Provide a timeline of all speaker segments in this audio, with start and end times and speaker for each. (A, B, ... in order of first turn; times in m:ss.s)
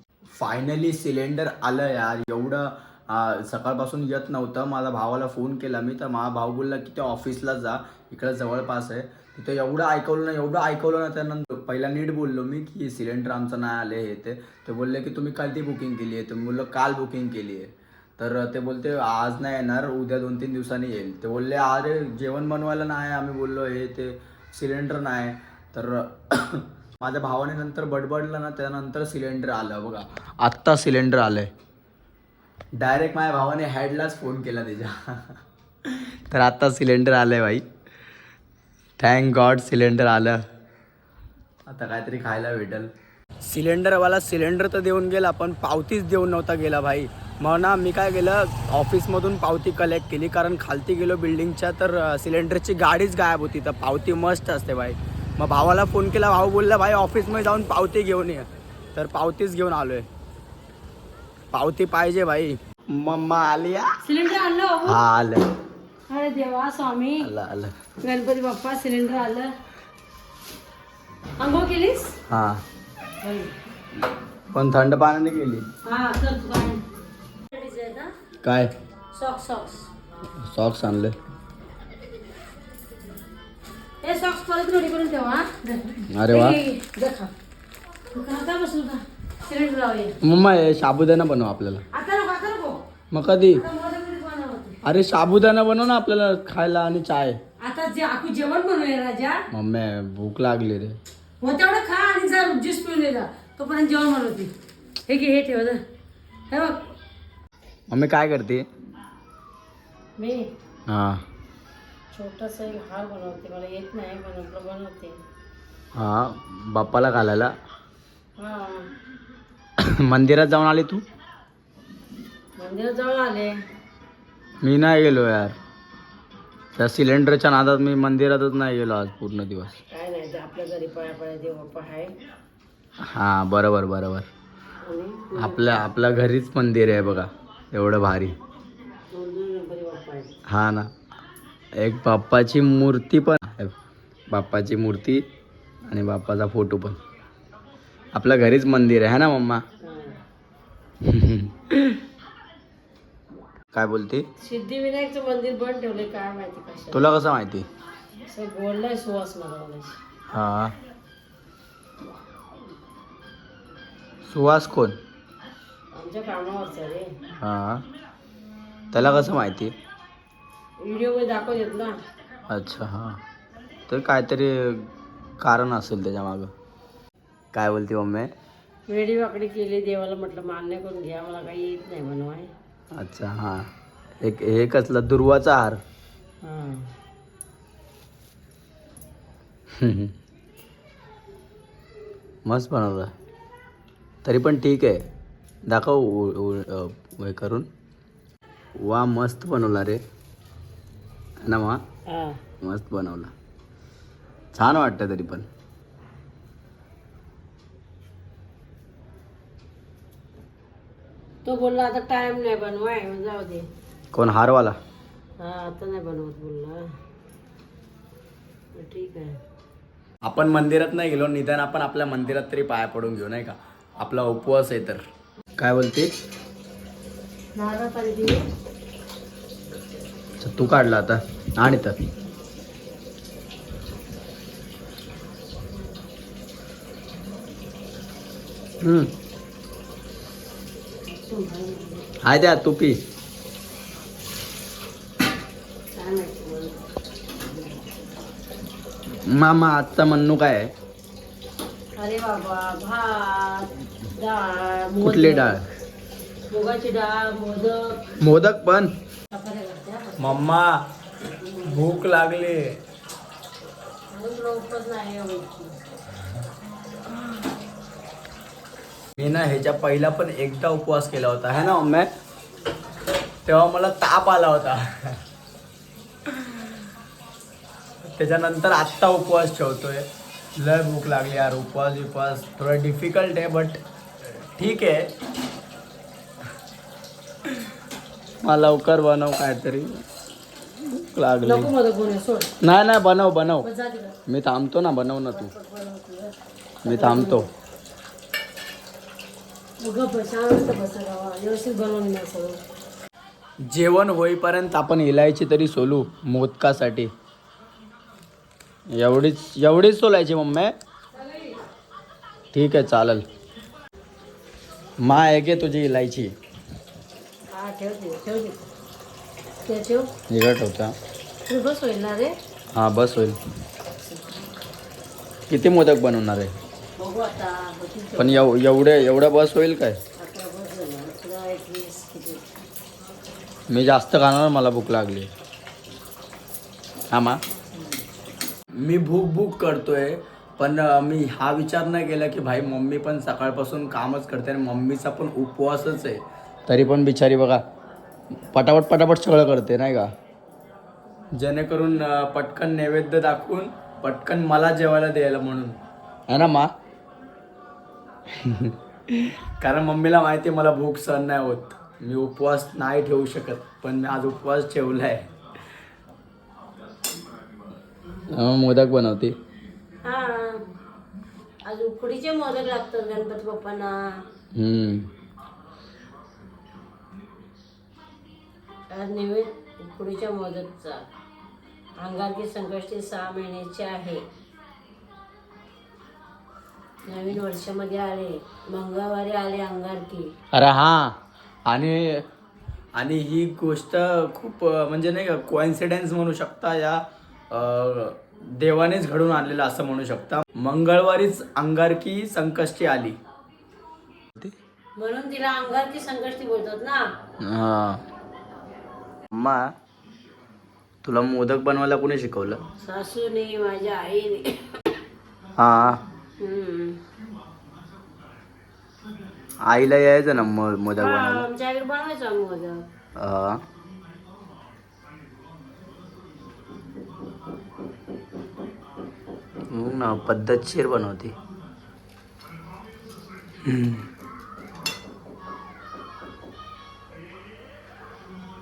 0:00.4-0:31.5 A
0:32.8-0:37.6 A
0:39.0-0:40.4 A
0:41.7-0:42.9 A
0:43.4-1:00.1 A
1:01.5-1:03.9 A
1:04.0-1:05.0 B
1:04.8-1:05.5 A
1:06.1-1:07.3 B
1:07.2-1:07.7 A
1:08.0-1:09.5 B
1:11.4-1:12.1 B
1:12.3-1:12.6 A
1:13.2-1:13.5 B
1:14.5-1:15.6 A
1:15.8-1:16.8 B
1:17.5-1:18.1 B
1:18.4-1:18.7 A
1:19.1-1:19.9 B
1:20.4-1:21.2 A
1:24.0-1:27.3 B
1:26.1-1:26.6 A
1:28.1-1:30.2 B
1:30.2-1:31.8 A
1:31.9-1:32.8 B
1:33.1-1:33.6 A
1:33.5-1:34.8 B
1:34.8-1:37.4 A
1:37.6-1:39.4 B
1:39.5-1:41.0 A
1:41.4-1:44.5 B
1:45.1-1:45.8 B
1:46.5-1:46.8 B
1:47.9-1:48.6 A
1:50.2-1:50.5 B
1:50.9-1:51.2 A
1:52.1-1:55.2 B
1:55.9-1:57.5 A
1:58.4-1:58.9 B
1:59.8-2:01.0 A
2:02.6-2:03.5 B
2:04.6-2:05.5 A
2:06.8-2:09.8 A
2:09.9-2:12.1 B
2:13.0-2:14.3 A
2:14.8-2:15.8 B
2:15.4-2:18.4 A
2:19.1-2:20.4 B
2:20.5-2:20.9 A
2:21.8-2:23.7 A
2:24.3-2:25.2 A
2:25.9-2:27.0 A
2:28.1-2:29.6 A
2:29.8-2:30.2 B
2:31.0-2:32.0 A
2:33.7-2:34.2 A
2:34.4-2:37.1 B
2:36.9-2:37.7 A
2:38.3-2:40.0 B
2:40.3-2:40.7 A
2:44.3-2:45.0 A
2:45.9-2:47.1 B
2:47.4-2:47.8 A
2:48.9-2:49.7 A
2:50.8-2:51.9 B
2:52.5-2:53.2 A
2:53.9-2:54.9 A
2:55.4-2:56.5 A
2:57.5-2:58.3 A
2:58.9-3:02.5 B
3:02.9-3:03.6 A
3:04.2-3:05.8 A
3:06.4-3:06.9 B
3:09.8-3:10.1 A
3:12.4-3:13.1 A
3:14.2-3:15.0 A
3:15.7-3:17.7 A
3:18.8-3:20.0 A
3:21.4-3:21.8 A
3:22.1-3:22.4 B
3:22.6-3:23.3 A
3:24.5-3:25.5 A
3:31.4-3:33.7 B
3:34.1-3:34.8 A
3:35.4-3:36.8 B
3:38.7-3:39.4 B
3:40.2-3:45.0 A
3:45.6-3:46.1 A
3:47.5-3:48.4 B
3:50.4-3:52.0 A
3:58.8-3:59.1 A
4:01.1-4:02.1 B
4:02.2-4:03.0 A
4:05.9-4:06.8 B
4:07.5-4:07.8 B
4:09.1-4:10.7 A
4:12.0-4:15.6 B
4:15.0-4:15.7 A
4:16.5-4:18.0 B
4:18.2-4:18.9 A
4:19.3-4:20.5 B
4:20.2-4:20.8 A
4:21.2-4:22.0 B
4:21.7-4:22.8 A
4:24.1-4:25.8 B
4:29.2-4:32.1 A
4:33.4-4:35.2 A
4:36.3-4:36.6 A
4:38.0-4:40.0 A
4:40.6-4:45.1 A
4:48.4-4:50.0 A
4:50.7-4:51.7 A
4:51.4-4:52.5 B
4:52.6-4:53.7 A
4:53.6-4:54.2 B
4:54.3-4:55.5 A
4:55.3-4:56.3 B
4:56.8-4:57.5 A
4:56.8-4:57.5 B
4:59.8-5:02.6 B
5:03.6-5:07.1 A
5:08.9-5:10.7 A
5:12.5-5:13.2 A
5:15.0-5:16.3 A
5:17.5-5:18.6 B
5:19.6-5:20.1 B
5:20.3-5:20.9 A
5:21.5-5:22.3 B
5:22.7-5:23.4 A
5:24.0-5:24.3 B
5:25.5-5:26.6 A
5:27.0-5:28.4 B
5:28.2-5:30.0 A
5:30.2-5:32.5 B
5:33.7-5:35.3 A
5:37.1-5:37.4 A
5:38.8-5:47.6 A
5:48.5-5:50.1 A
5:51.3-5:55.8 A
5:56.3-5:56.7 A
5:58.3-6:05.3 A
6:08.3-6:09.3 A
6:10.0-6:10.6 B
6:11.6-6:14.0 B
6:14.5-6:15.1 A
6:18.9-6:21.1 B
6:22.0-6:24.3 B
6:27.1-6:30.3 B
6:30.5-6:32.2 A
6:32.9-6:43.2 A
6:45.0-6:47.1 B
6:47.4-6:48.0 A
6:49.3-6:49.6 A
6:51.0-6:52.6 A
6:52.8-6:54.6 B
6:55.6-6:56.0 A
6:56.4-6:57.0 B
6:59.6-7:01.4 A
7:01.0-7:02.8 B
7:03.2-7:03.6 A
7:09.7-7:11.3 A
7:13.6-7:14.1 A